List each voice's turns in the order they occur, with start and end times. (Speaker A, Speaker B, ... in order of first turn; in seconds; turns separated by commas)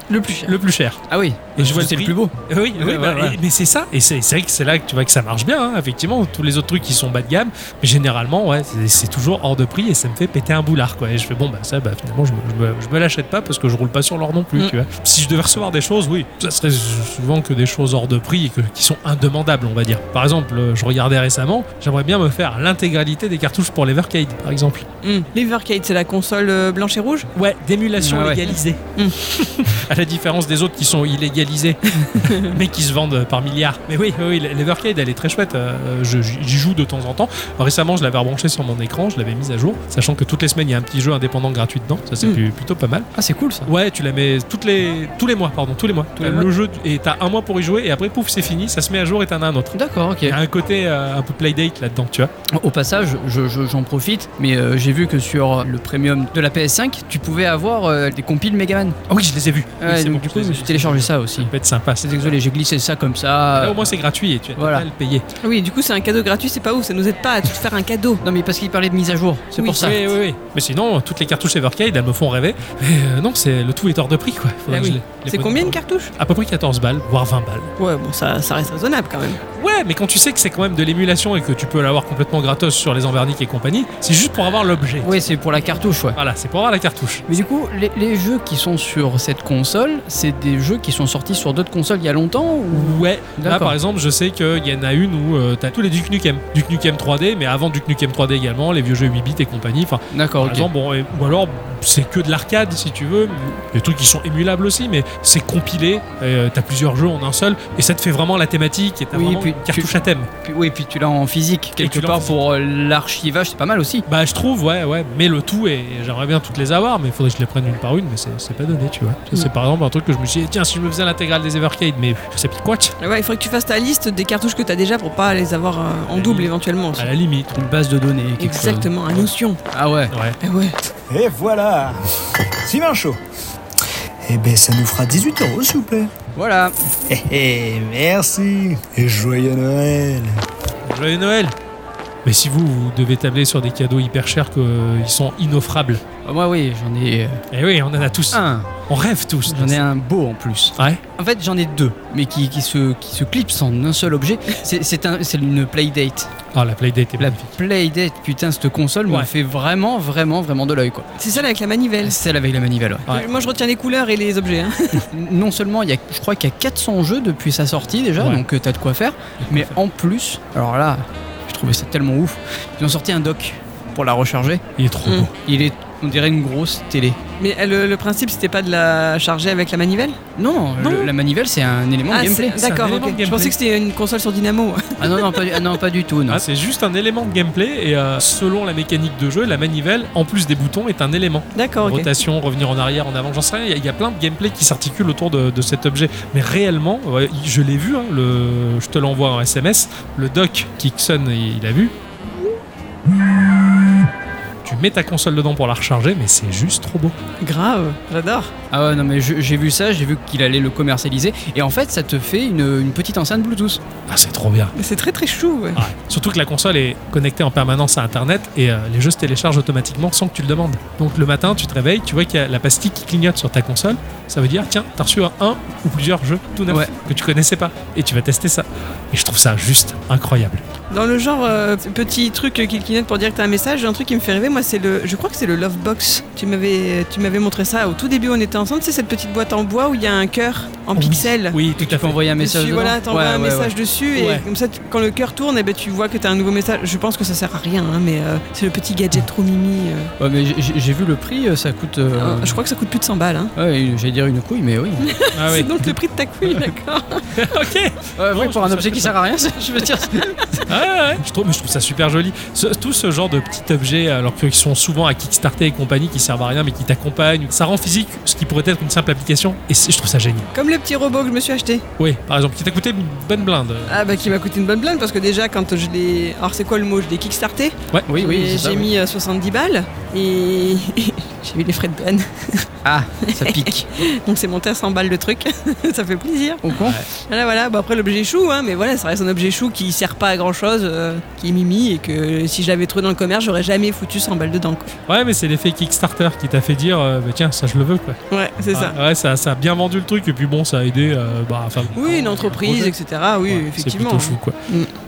Speaker A: 0.1-0.5, Speaker B: 0.4-1.0, Speaker C: 1.1-3.4, Speaker B: 1.6-24.9, Speaker A: 25.0-27.3, Speaker B: 27.4-43.1, Speaker C: 28.0-28.4, Speaker A: 32.2-32.5, Speaker C: 43.2-43.7, Speaker B: 43.6-52.3, Speaker C: 46.2-46.5, Speaker C: 49.7-50.4, Speaker C: 52.5-59.0, Speaker B: 59.1-62.4, Speaker C: 59.8-61.5, Speaker C: 62.0-63.8, Speaker B: 63.6-65.3, Speaker C: 64.6-64.9, Speaker A: 65.4-68.2, Speaker C: 68.2-70.1, Speaker A: 69.6-69.9, Speaker B: 69.8-77.7, Speaker A: 74.7-76.1, Speaker A: 77.8-79.4, Speaker B: 79.5-85.1, Speaker C: 85.0-86.2, Speaker B: 86.2-87.3, Speaker C: 87.3-93.7, Speaker B: 92.7-110.3, Speaker C: 100.1-100.7, Speaker C: 109.1-109.9, Speaker C: 110.5-114.0, Speaker B: 111.8-112.3, Speaker B: 114.1-123.0, Speaker A: 123.0-127.1, Speaker B: 126.1-127.5, Speaker C: 127.5-128.9, Speaker A: 128.4-129.6, Speaker C: 129.7-130.1, Speaker B: 130.1-130.4, Speaker A: 130.4-130.8, Speaker D: 131.1-132.0, Speaker D: 132.6-133.2, Speaker D: 134.2-136.1, Speaker C: 136.4-136.8, Speaker D: 137.1-140.4, Speaker B: 140.9-141.6, Speaker B: 142.2-146.0, Speaker C: 146.2-147.4, Speaker B: 147.5-149.8, Speaker C: 148.3-148.7, Speaker C: 149.5-156.3, Speaker B: 150.8-151.0, Speaker B: 156.5-157.6, Speaker C: 157.2-161.1, Speaker A: 161.2-162.2, Speaker C: 162.0-163.1, Speaker A: 163.1-165.0, Speaker C: 165.0-174.6, Speaker B: 169.5-169.7, Speaker B: 174.8-175.3, Speaker C: 175.4-177.2, Speaker A: 177.4-180.2, Speaker C: 180.4-182.6, Speaker B: 180.8-181.1, Speaker A: 182.1-185.6, Speaker B: 182.6-183.6, Speaker C: 185.0-186.4, Speaker B: 186.3-201.9, Speaker A: 191.6-192.1, Speaker B: 204.6-207.2, Speaker A: 207.4-208.5, Speaker C: 208.7-213.8, Speaker B: 214.1-214.7, Speaker A: 214.8-215.8, Speaker B: 215.8-230.6, Speaker A: 230.9-241.6, Speaker B: 240.9-242.2, Speaker C: 241.8-243.7, Speaker A: 242.4-250.1, Speaker B: 244.2-244.5, Speaker C: 250.2-252.6, Speaker A: 252.2-253.5, Speaker C: 253.6-255.1, Speaker A: 255.0-257.3, Speaker B: 255.3-256.6, Speaker B: 257.4-259.1, Speaker C: 258.2-260.6, Speaker B: 260.7-270.5, Speaker A: 270.5-271.9, Speaker B: 272.0-274.3, Speaker A: 273.9-282.7, Speaker C: 278.1-278.9, Speaker C: 282.9-283.9, Speaker A: 283.3-294.9, Speaker C: 286.6-287.0, Speaker B: 286.8-287.1, Speaker B: 295.1-298.2, Speaker A: 298.3-299.0, Speaker B: 298.7-304.6, Speaker A: 301.9-304.9